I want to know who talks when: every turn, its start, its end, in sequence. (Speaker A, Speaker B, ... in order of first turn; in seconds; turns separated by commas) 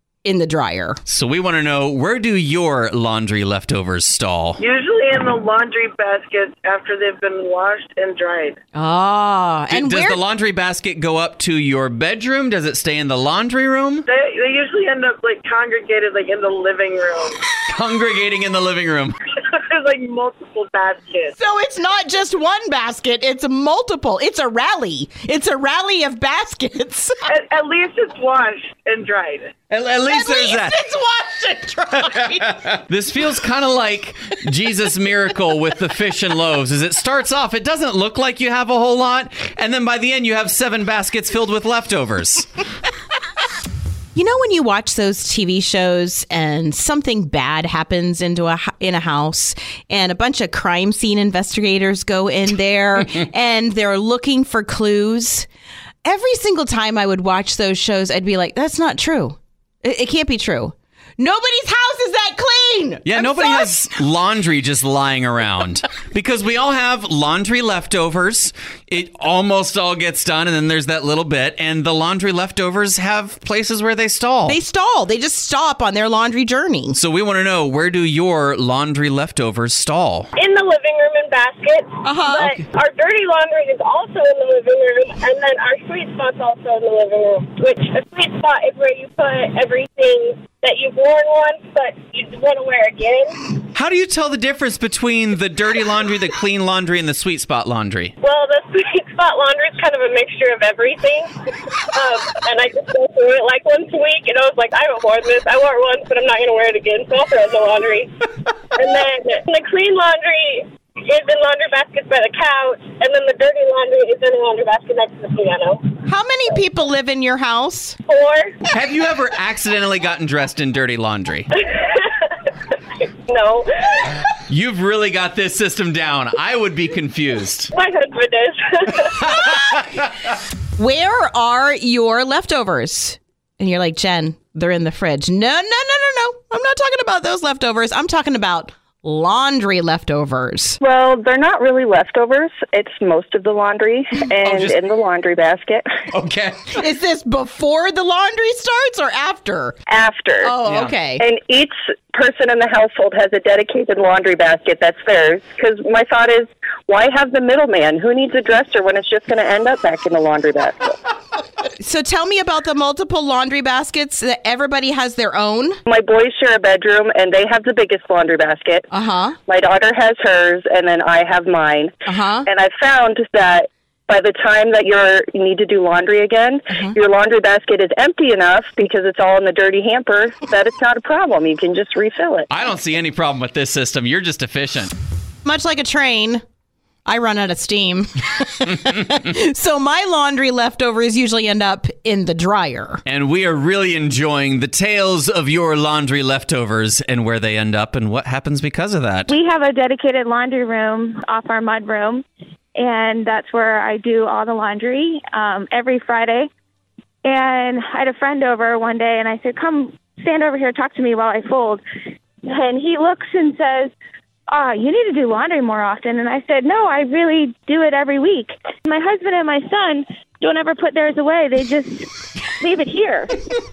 Speaker A: 0.2-1.0, Speaker B: 1.1-4.6, Speaker C: 4.6-8.6, Speaker A: 8.7-10.2, Speaker B: 9.7-14.0, Speaker C: 14.1-17.4, Speaker B: 17.7-19.1, Speaker C: 19.4-21.4, Speaker A: 21.4-27.1, Speaker C: 27.3-29.6, Speaker B: 29.7-30.8, Speaker A: 30.1-32.6, Speaker B: 32.0-42.5, Speaker A: 44.1-55.5, Speaker A: 56.0-63.9, Speaker B: 63.0-74.6, Speaker A: 74.5-77.0, Speaker B: 76.9-80.3, Speaker D: 80.3-93.6, Speaker A: 82.0-82.6, Speaker B: 93.7-98.1, Speaker D: 98.2-116.0, Speaker A: 116.0-118.0, Speaker D: 118.0-118.6, Speaker B: 118.7-121.5, Speaker D: 121.5-124.2, Speaker B: 124.5-127.7, Speaker D: 127.7-129.4, Speaker A: 130.8-140.8, Speaker E: 140.8-146.0, Speaker B: 144.4-144.8, Speaker B: 146.1-146.8, Speaker A: 146.7-149.8, Speaker E: 149.9-150.6, Speaker A: 150.4-151.2, Speaker B: 150.6-150.9, Speaker E: 151.2-161.0, Speaker A: 161.8-165.8, Speaker E: 165.8-168.9, Speaker A: 168.9-169.4, Speaker E: 169.5-171.9, Speaker A: 172.0-172.5, Speaker E: 172.4-182.5, Speaker B: 182.5-184.9, Speaker A: 185.4-186.4, Speaker A: 187.1-193.0, Speaker B: 193.1-199.3, Speaker F: 199.3-202.2, Speaker F: 202.8-206.5, Speaker F: 207.2-211.8, Speaker F: 212.4-213.9, Speaker F: 214.5-223.4